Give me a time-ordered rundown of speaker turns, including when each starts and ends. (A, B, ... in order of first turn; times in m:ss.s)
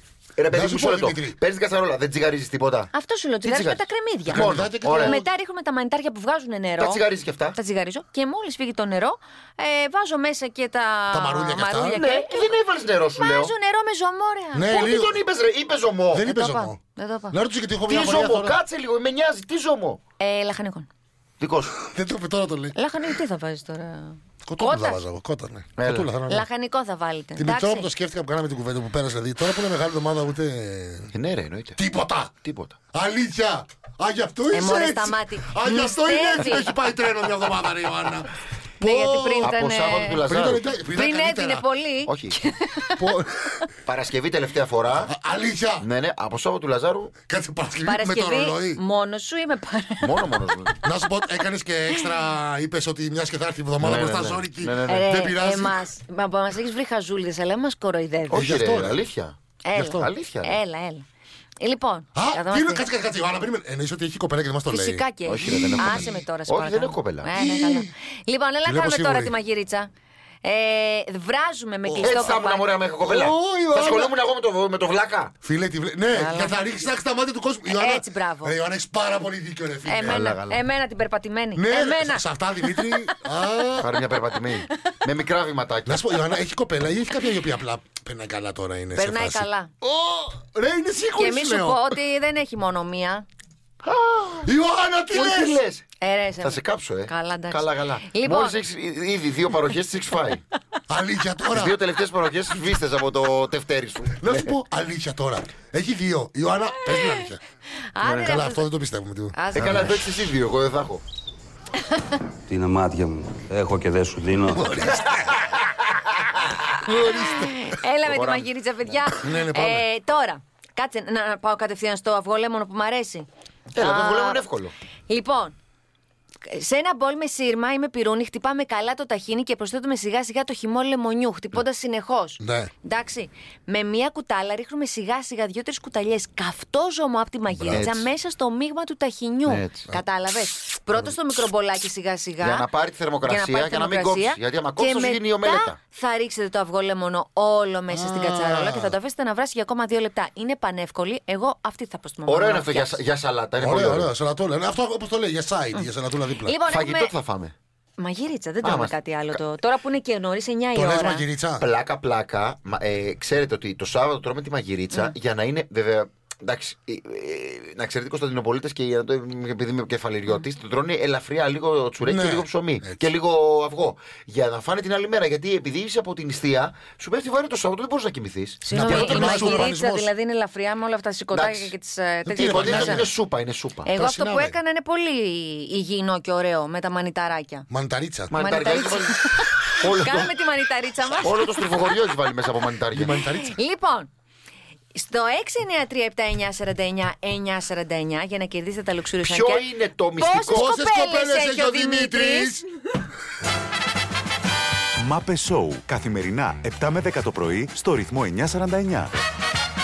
0:00.4-0:02.9 A
0:00.5-0:01.4 B
0:02.9-0:07.0 C
0:03.4-0:05.2 A
0:04.3-0:05.3 B
0:06.8-0:07.6 A
0:07.5-0:12.5 C
0:11.1-0:12.0 B
0:11.9-0:13.5 A
0:13.2-0:14.8 C
0:14.5-0:15.2 B
0:14.7-0:16.2 A
0:16.1-0:16.8 B
0:16.2-0:17.4 C
0:17.3-0:18.6 B
0:17.9-0:20.0 A
0:20.2-0:20.9 C
0:21.4-0:21.8 A
0:21.8-0:22.7 B
0:22.8-0:25.0 C
0:24.4-0:26.5 B
0:25.8-0:26.1 A
0:26.3-0:27.9 C
0:27.4-0:31.1 B
0:31.1-0:31.8 A
0:31.8-0:32.4 B
0:32.4-0:32.8 A
0:32.9-0:39.6 B
0:34.5-0:36.7 C
0:38.8-0:40.2 C
0:39.4-0:40.6 A
0:40.2-0:41.7 B
0:41.0-0:43.0 C
0:42.1-0:42.4 A
0:43.0-0:43.5 B
0:43.9-0:45.1 A
0:45.0-0:45.9 B
0:45.8-0:47.1 A
0:47.2-0:48.8 B
0:47.8-0:50.2 C
0:50.0-0:50.8 A
0:50.8-0:55.8 B
0:53.8-0:55.1 A
0:54.9-0:58.5 C
0:58.3-0:59.4 A
0:58.3-0:59.0 B
0:59.7-1:01.0 C
0:59.7-1:00.1 B
1:00.0-1:00.6 A
1:01.6-1:02.9 C
1:02.2-1:06.1 B
1:04.7-1:09.9 C
1:05.2-1:07.3 A
1:07.3-1:07.9 B
1:08.7-1:09.4 B
1:10.4-1:12.7 C
1:11.9-1:12.4 B
1:12.0-1:15.3 A
1:13.0-1:14.1 B
1:15.4-1:20.3 B
1:16.1-1:16.6 C
1:17.7-1:18.6 C
1:19.9-1:22.9 C
1:20.0-1:20.6 A
1:21.6-1:23.9 B
1:23.8-1:26.2 A
1:25.9-1:32.0 B
1:29.0-1:29.7 C
1:31.2-1:33.2 C
1:33.8-1:34.5 A
1:34.4-1:35.6 B
1:35.1-1:35.9 A
1:36.0-1:38.6 C
1:36.4-1:40.4 A
1:40.9-1:41.8 B
1:41.5-1:44.6 A
1:44.2-1:47.4 B
1:46.9-1:47.2 C
1:48.0-1:48.6 C
1:48.0-1:49.4 B
1:49.4-1:50.0 C
1:49.6-1:51.0 A
1:52.5-1:54.7 D
1:54.5-1:55.4 B
1:54.9-1:55.3 A
1:56.9-1:57.6 B
1:57.0-2:03.3 C
1:58.1-1:58.5 A
1:59.2-1:59.9 B
2:03.7-2:04.7 A
2:03.8-2:04.4 C
2:05.1-2:05.6 C
2:06.5-2:22.7 C
2:12.4-2:12.7 B
2:17.5-2:17.9 B
2:17.7-2:18.1 A
2:19.5-2:19.8 A
2:22.4-2:25.8 A
2:23.2-2:33.0 C
2:27.9-2:29.0 B
2:32.3-2:34.1 A
2:33.6-2:36.6 B
2:36.4-2:37.1 C
2:36.7-2:37.5 A
2:38.0-2:41.2 C
2:38.6-2:39.4 A
2:40.7-2:41.6 B
2:41.6-2:59.7 A
2:52.0-2:53.1 B
2:58.6-3:03.1 C
2:58.7-3:00.1 B
3:01.3-3:01.7 A
3:02.3-3:03.1 B
3:02.4-3:03.9 A
3:03.9-3:07.7 C
3:04.0-3:04.6 B
3:07.7-3:08.4 B
3:08.3-3:09.1 A
3:08.4-3:11.6 C
3:09.8-3:10.3 A
3:11.2-3:13.1 A
3:12.9-3:13.6 B
3:13.3-3:14.1 C
3:15.0-3:22.6 C
3:19.2-3:20.7 A
3:20.5-3:22.6 B
3:25.0-3:29.1 E